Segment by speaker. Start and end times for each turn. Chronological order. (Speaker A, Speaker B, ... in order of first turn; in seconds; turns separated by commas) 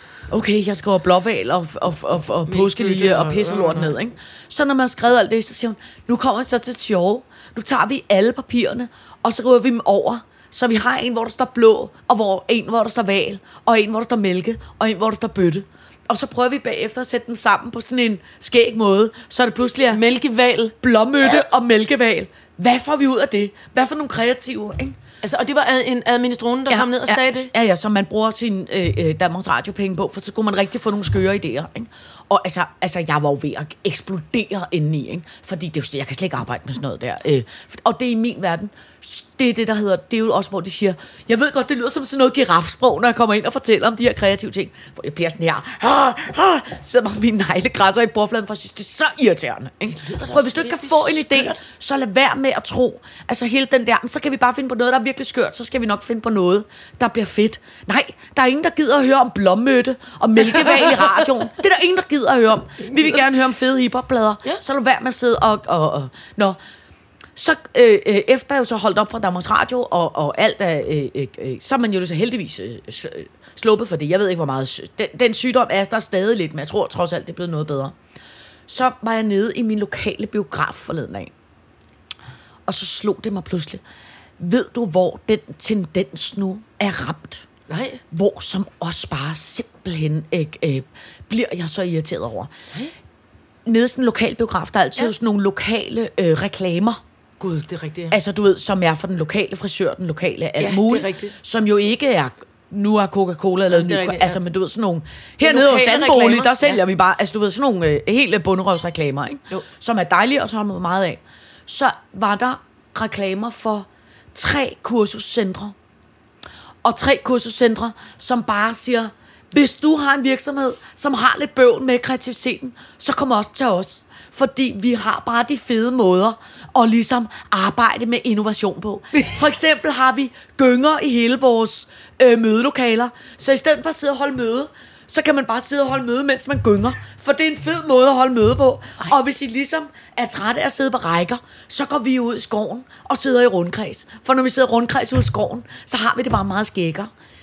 Speaker A: 0.3-20.0, Speaker B: 2.5-3.9, Speaker B: 19.9-20.7, Speaker A: 20.8-25.0, Speaker B: 25.2-27.5, Speaker A: 26.7-66.6, Speaker B: 50.0-51.6, Speaker B: 60.5-61.2, Speaker A: 67.3-77.9, Speaker A: 78.7-81.3, Speaker A: 82.7-83.8, Speaker A: 84.4-87.4, Speaker B: 87.7-88.0, Speaker A: 88.1-92.5, Speaker A: 93.6-97.0, Speaker B: 97.4-98.2, Speaker A: 98.1-115.7, Speaker B: 100.6-101.3, Speaker B: 103.7-104.4, Speaker B: 105.4-106.8, Speaker A: 116.8-147.1